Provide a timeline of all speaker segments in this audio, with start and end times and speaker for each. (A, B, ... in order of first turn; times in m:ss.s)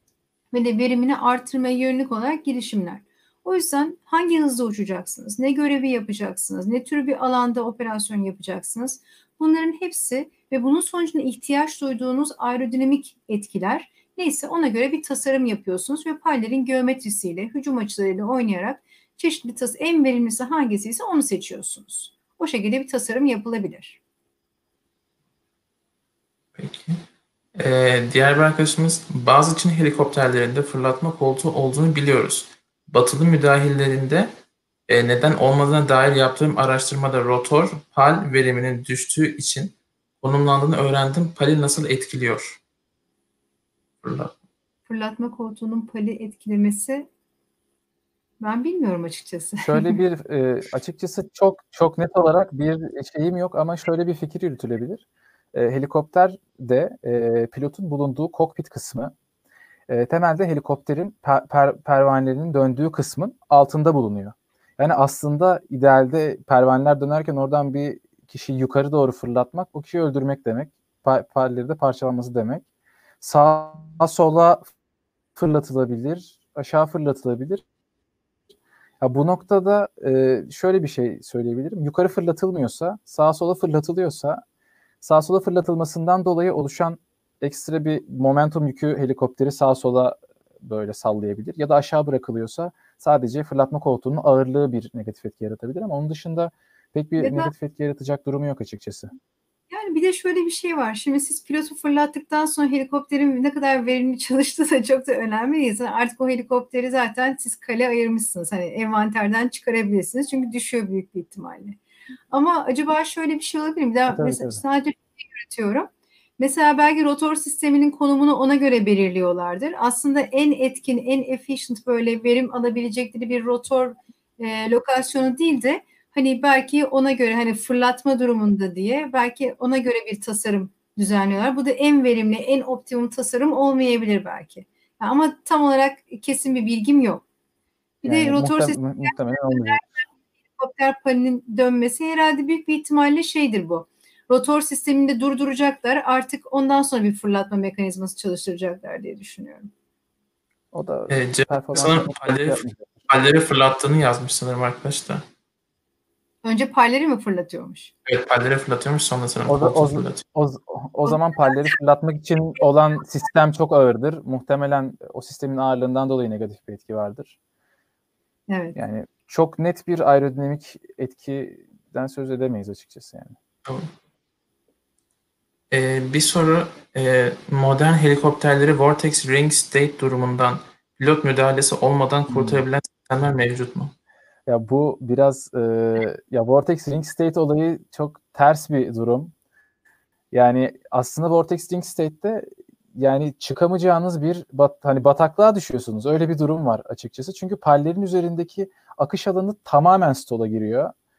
0:00.5-0:24.0 A
0:26.6-0:27.0 B
0:27.6-0:34.3 B
0:34.9-0:42.6 B
0:44.0-0:44.3 B
0:44.9-0:47.1 A
0:48.4-0:50.0 A
0:49.6-0:59.1 C
0:59.9-1:12.6 C
1:13.2-1:14.7 C
1:15.4-1:17.6 C
1:19.0-1:24.4 C
1:25.0-1:39.1 C
1:37.2-1:37.5 A
1:39.7-1:51.8 A
1:52.3-2:17.2 A
1:54.1-1:54.6 C
2:18.0-2:20.0 A
2:18.0-2:19.8 C
2:20.6-2:29.7 A
2:30.7-2:33.0 C
2:31.1-2:35.2 B
2:36.4-2:37.9 A
2:38.0-2:40.2 B
2:39.5-2:47.4 C
2:48.5-2:48.8 A
2:48.7-2:53.4 C
2:55.7-3:03.9 B
3:02.3-3:02.6 C
3:04.4-3:09.3 C
3:10.3-3:20.9 C